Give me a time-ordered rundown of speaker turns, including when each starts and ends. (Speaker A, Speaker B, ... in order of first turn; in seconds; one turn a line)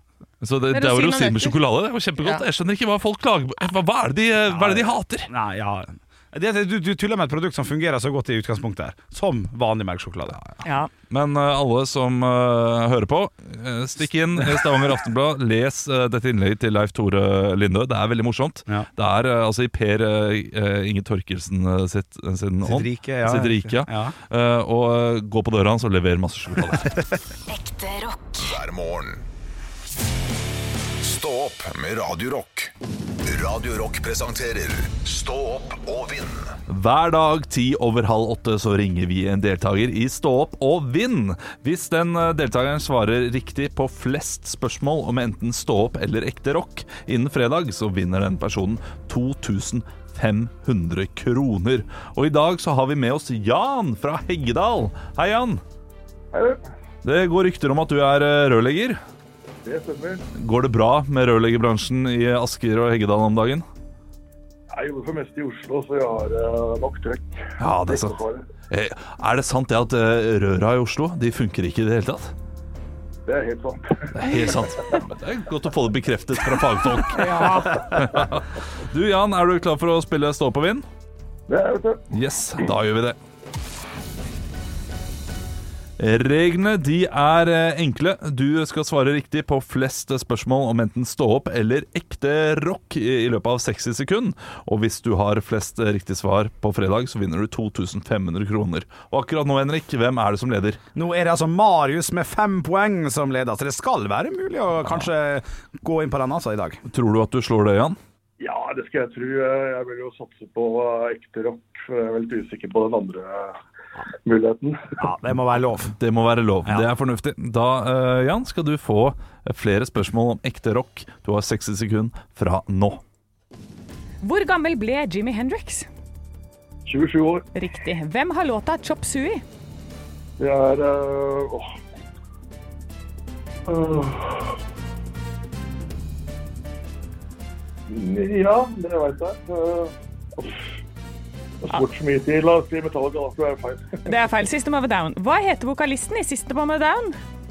Speaker A: 0.4-5.3
Speaker B: 0.7-1.6
Speaker B: 2.2-2.4
Speaker C: 4.5-10.4
Speaker B: 10.6-10.9
Speaker A: 11.1-27.0
Speaker C: 14.4-14.6
Speaker C: 22.6-24.1
Speaker D: 27.7-29.2
Speaker D: 31.0-36.5
Speaker A: 36.7-55.6
Speaker E: 56.3-56.6
Speaker A: 57.0-59.0
Speaker E: 59.6-60.2
Speaker A: 60.3-63.6
Speaker E: 64.7-68.5
Speaker A: 67.6-72.3
Speaker E: 73.2-74.7
Speaker A: 74.1-80.8
Speaker B: 77.1-77.9
Speaker E: 81.5-82.0
Speaker A: 82.1-83.2
Speaker A: 86.0-100.8
Speaker C: 100.9-106.8
Speaker A: 106.9-108.0
Speaker E: 108.4-113.6
Speaker E: 114.2-115.0
Speaker C: 115.0-115.9
Speaker A: 115.9-123.0
Speaker B: 124.2-125.9
Speaker E: 126.8-127.5
Speaker B: 127.5-129.4
Speaker E: 130.4-131.7
Speaker E: 133.7-134.5
Speaker E: 137.9-140.6
Speaker E: 141.6-144.1
Speaker B: 144.0-147.2